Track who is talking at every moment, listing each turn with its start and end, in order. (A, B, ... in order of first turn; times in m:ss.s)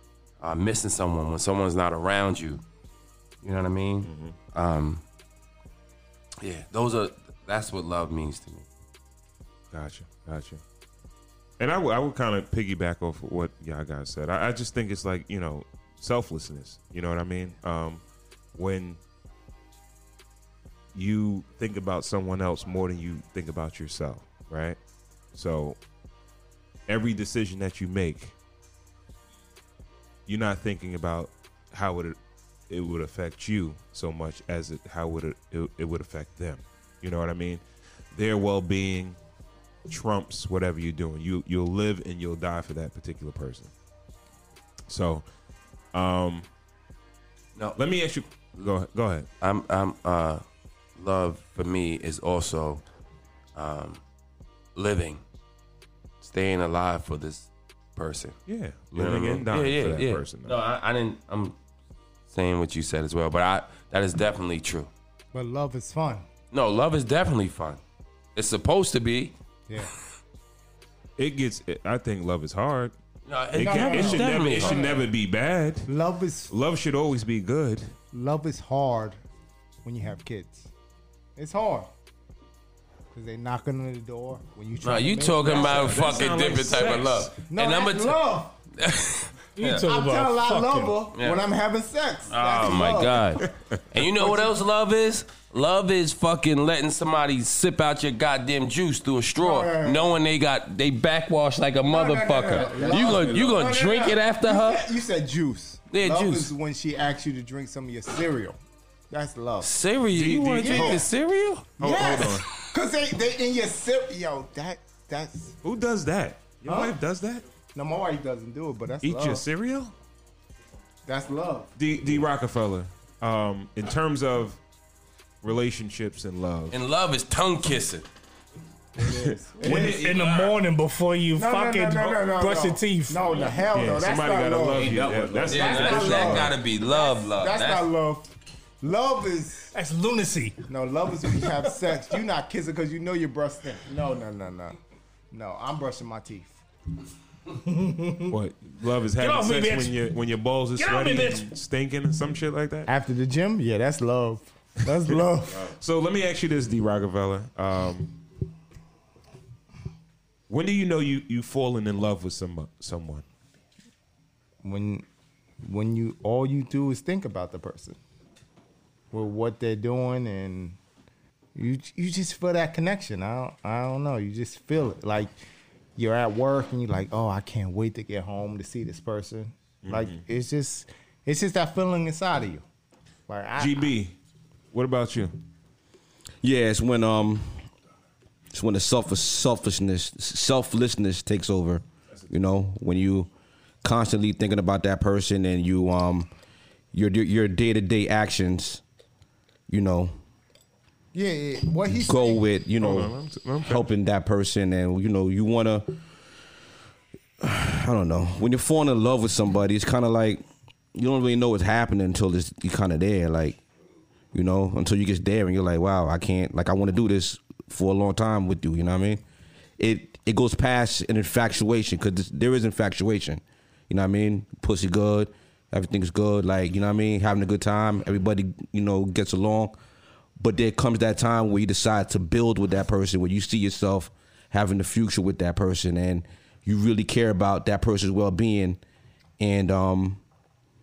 0:00.4-0:02.6 A
0:03.4-0:05.0 A
0:04.0-0:04.4 B
0:06.4-0:08.7 A
0:09.7-0:10.6 B
0:11.6-0:18.0 B
0:18.6-0:19.0 B
0:20.9-0:24.8 B
0:25.3-0:25.8 B
0:26.9-0:28.4 B
0:30.3-0:32.2 B
0:32.7-0:39.2 B
0:39.9-0:43.7 B
0:44.9-0:45.3 B
0:45.9-0:46.5 B
0:47.8-0:49.3 B
0:49.4-0:50.4 A
0:51.0-0:52.8 A
0:53.6-0:54.0 A
0:54.8-0:55.2 A
0:56.2-0:58.4 A
0:58.5-1:00.6 B
0:58.9-1:01.6 A
1:02.3-1:04.9 A
1:05.3-1:06.3 C
1:06.5-1:07.8 A
1:08.4-1:09.3 A
1:11.2-1:13.0 B
1:13.3-1:14.9 A
1:13.5-1:15.9 B
1:13.6-1:15.1 C
1:15.9-1:16.5 C
1:16.5-1:17.9 B
1:18.1-1:19.2 C
1:19.8-1:20.7 C
1:21.4-1:21.9 C
1:23.1-1:26.2 C
1:24.8-1:28.2 A
1:25.4-1:27.3 B
1:27.4-1:28.6 C
1:28.8-1:29.8 A
1:29.6-1:31.0 D
1:29.7-1:33.4 C
1:31.2-1:31.4 A
1:32.3-1:44.9 A
1:34.2-1:34.5 C
1:39.4-1:40.1 C
1:41.8-1:48.6 C
1:42.7-1:43.5 E
1:45.9-1:46.5 A
1:49.1-1:49.7 C
1:49.6-1:52.3 A
1:50.1-1:51.1 B
1:50.6-1:51.1 C
1:51.8-1:52.5 B
1:51.8-1:55.6 C
1:55.6-1:57.4 B
1:56.6-1:57.0 C
1:57.8-1:59.4 C
1:59.0-1:59.9 B
2:01.1-2:01.7 C
2:01.8-2:04.6 B
2:05.4-2:06.8 B
2:06.7-2:08.1 A
2:09.0-2:10.0 C
2:09.0-2:10.6 B
2:09.6-2:13.4 D
2:11.4-2:19.7 C
2:13.7-2:16.5 B
2:14.8-2:17.9 A
2:14.8-2:16.4 E
2:19.7-2:20.6 D
2:20.7-2:24.8 C
2:21.3-2:21.7 D
2:25.3-2:26.6 C
2:27.6-2:28.4 D
2:28.3-2:32.9 B
2:29.2-2:30.0 D
2:30.8-2:31.5 D
2:32.9-2:35.7 C
2:35.6-2:38.2 B
2:40.5-2:43.3 B
2:44.6-2:45.0 C
2:45.6-2:48.0 C
2:49.1-2:50.8 C
2:51.6-2:55.3 C
2:56.0-3:02.6 C
2:59.8-3:00.2 B
3:03.3-3:03.9 C
3:03.6-3:04.2 B
3:04.7-3:05.4 B
3:06.4-3:07.7 E
3:08.5-3:13.3 E
3:13.8-3:16.3 E
3:16.9-3:18.8 E
3:19.7-3:20.1 E
3:21.1-3:22.4 C
3:22.0-3:26.0 E
3:22.8-3:23.8 B
3:27.4-3:33.6 E
3:34.3-3:39.2 E
3:39.8-3:49.8 E
3:50.4-3:58.8 E
3:59.4-4:00.2 E